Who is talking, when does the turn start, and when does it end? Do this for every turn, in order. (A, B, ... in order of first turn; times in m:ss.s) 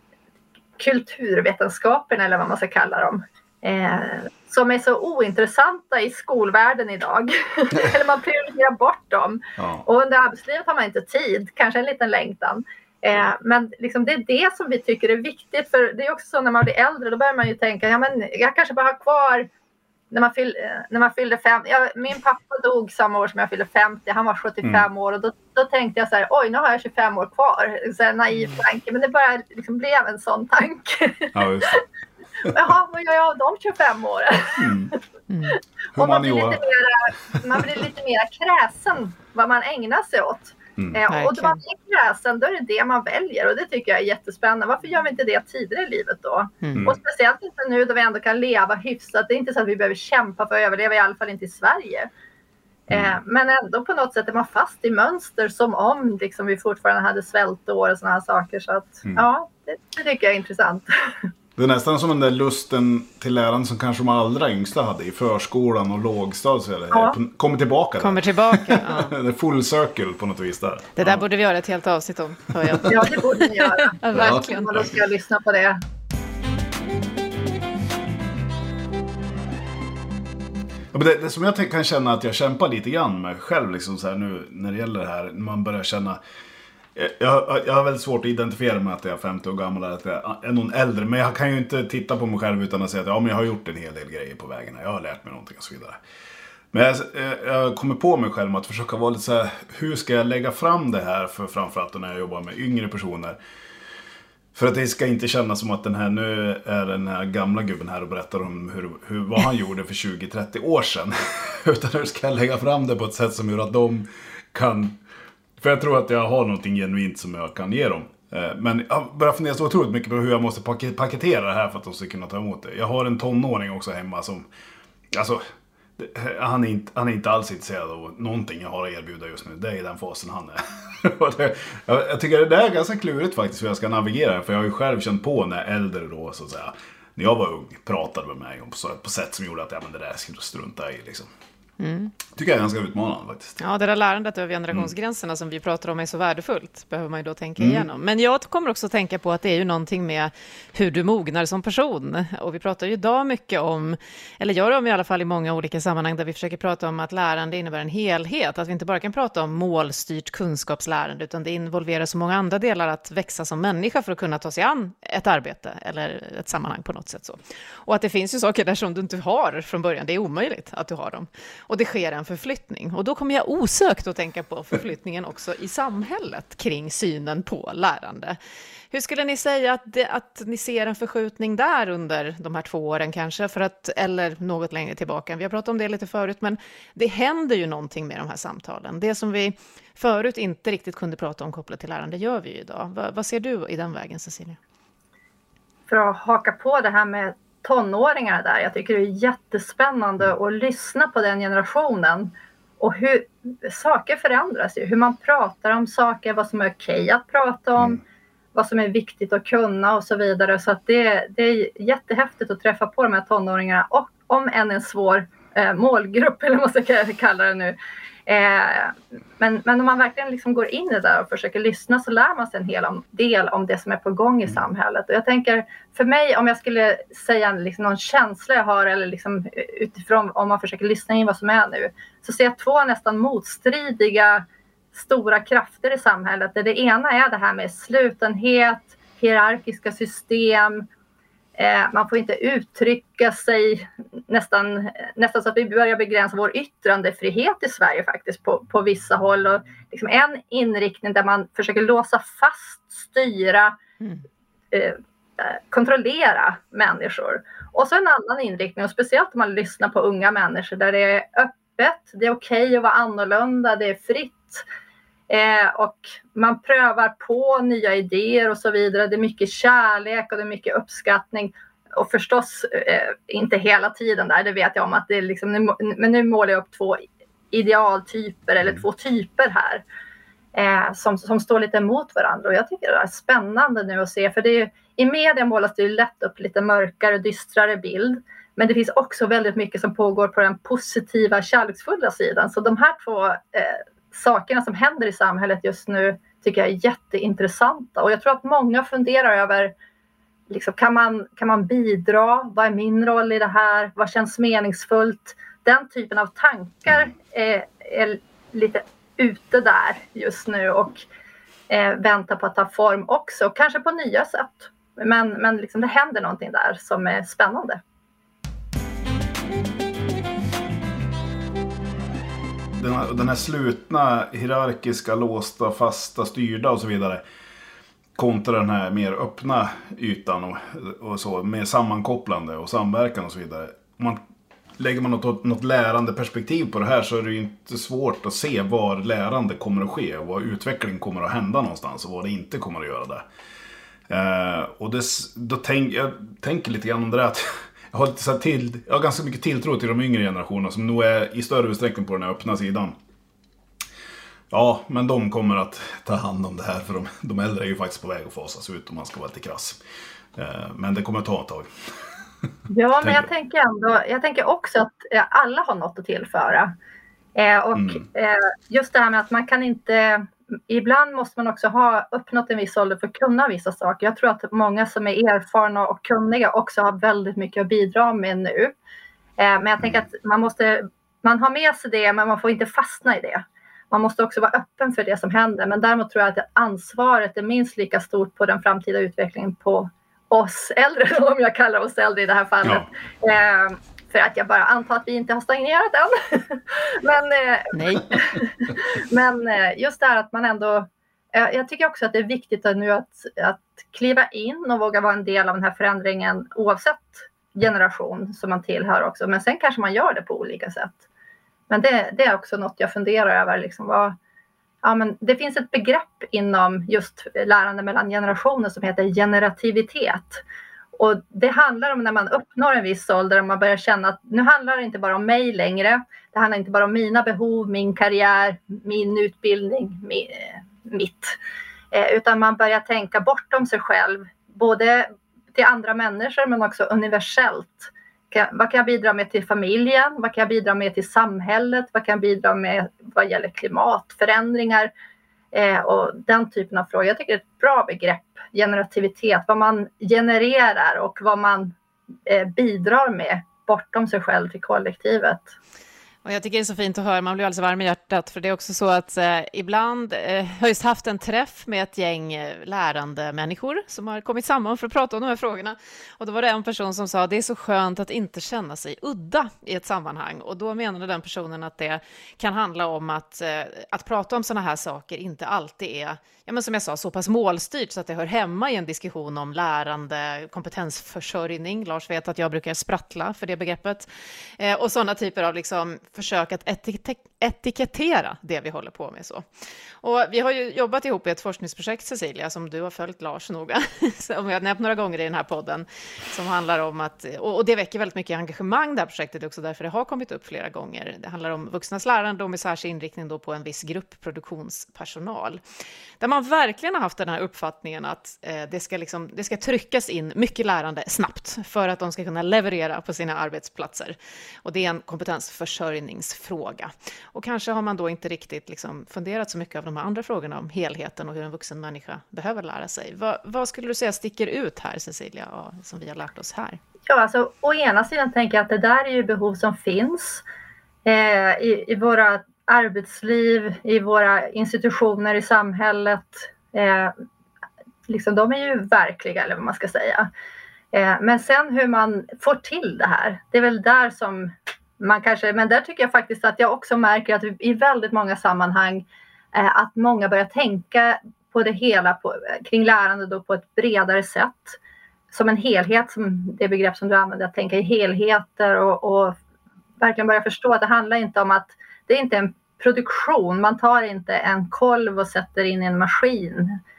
0:00.8-0:19.5 A
0:09.6-0:09.8 B
0:20.1-0:31.8 A
0:31.3-0:31.8 B
0:32.4-0:35.0 A
0:34.6-0:34.9 B
0:35.3-0:35.6 C
0:35.9-0:36.6 B
0:35.9-0:52.1 A
0:41.1-0:41.6 C
0:52.9-1:01.3 A
0:52.9-0:53.2 B
1:01.6-1:11.2 B
1:06.9-1:07.2 A
1:08.0-1:09.1 C
1:10.9-1:14.8 C
1:12.8-1:15.8 A
1:14.2-1:14.8 B
1:20.9-1:26.2 B
1:26.9-1:36.0 B
1:36.7-1:43.4 B
1:44.5-1:55.0 B
1:55.6-2:04.5 B
2:05.1-2:05.4 B
2:06.0-2:21.3 B
2:21.8-2:22.1 C
2:22.3-2:23.6 B
2:23.6-2:58.4 C
2:27.6-2:27.9 B
2:58.9-3:14.6 C
3:15.9-3:28.0 A
3:28.5-3:37.8 A
3:38.3-4:00.8 A
4:01.6-4:13.8 A
4:14.7-4:24.6 A
4:25.3-4:39.8 A
4:40.5-4:59.7 A
5:00.5-5:11.0 A
5:11.7-5:17.8 A
5:22.8-5:27.2 B
5:28.2-5:34.2 B
5:34.8-5:43.2 B
5:44.1-5:53.0 B
5:54.5-5:59.8 B
6:00.4-6:01.7 B
6:02.7-6:06.7 A
6:03.0-6:03.3 B
6:07.4-6:18.8 A
6:07.7-6:08.0 B
6:19.4-6:51.0 A
6:19.8-6:20.0 B
6:37.7-6:38.1 C
6:51.7-6:54.2 A
6:54.8-7:00.4 A
7:01.0-7:11.4 A
7:11.9-7:24.9 A
7:25.5-7:31.7 A
7:32.2-7:35.5 A
7:36.2-8:04.1 C
8:04.6-8:09.4 C
8:10.0-8:25.6 C
8:26.2-8:46.8 C
8:47.0-8:50.4 A
8:51.0-8:57.1 A
8:58.1-9:00.3 A
9:00.9-9:14.8 A
9:15.3-9:19.4 A
9:20.0-9:26.8 A